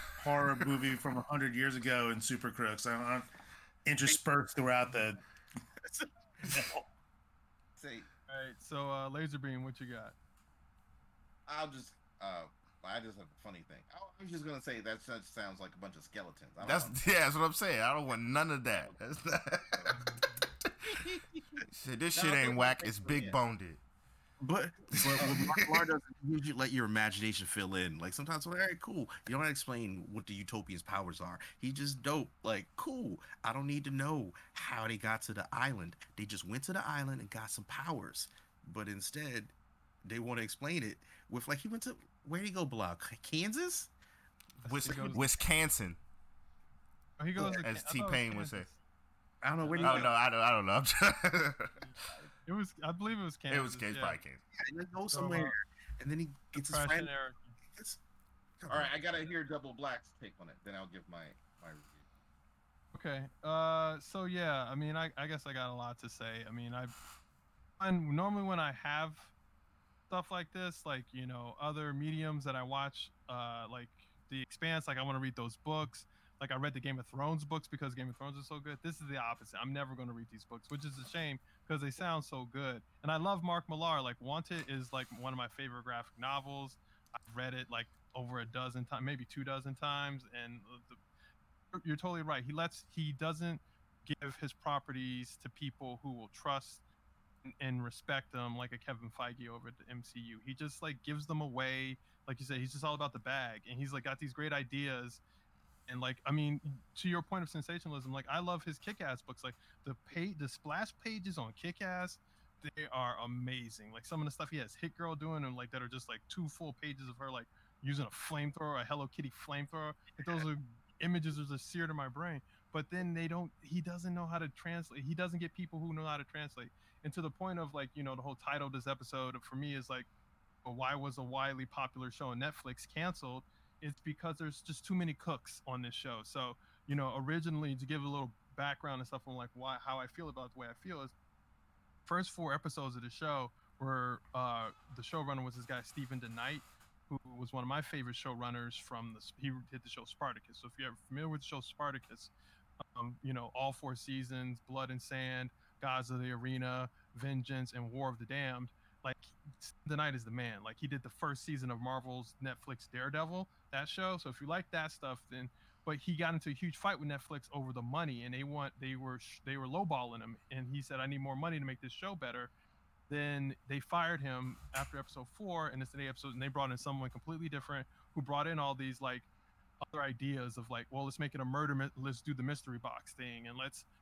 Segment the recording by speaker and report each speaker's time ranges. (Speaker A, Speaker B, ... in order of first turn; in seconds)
Speaker A: 0.2-3.3, 3.9-5.2, 6.5-6.8
Speaker B: 5.8-6.7, 24.4-39.5, 40.0-43.9, 44.7-45.3, 49.4-50.1, 54.6-57.1, 57.8-58.0, 58.6-59.2
Speaker C: 7.8-8.1, 11.5-17.1, 19.7-20.0, 22.1-23.4, 51.8-52.3, 58.7-62.0
Speaker D: 8.3-10.2, 19.9-20.4, 44.6-45.3, 47.2-48.8, 49.6-50.1, 52.5-54.2, 55.1-55.5, 56.5-57.5, 62.9-67.0, 67.8-69.3, 70.1-91.0, 91.7-96.8, 97.5-105.2, 105.9-130.1, 130.7-141.1, 142.1-152.3, 152.9-172.5, 173.1-179.3, 179.9-183.9
Speaker E: 16.6-20.0, 20.6-21.0, 21.7-23.8, 24.9-25.8, 44.8-46.0, 47.4-48.7, 49.8-51.8, 53.5-54.4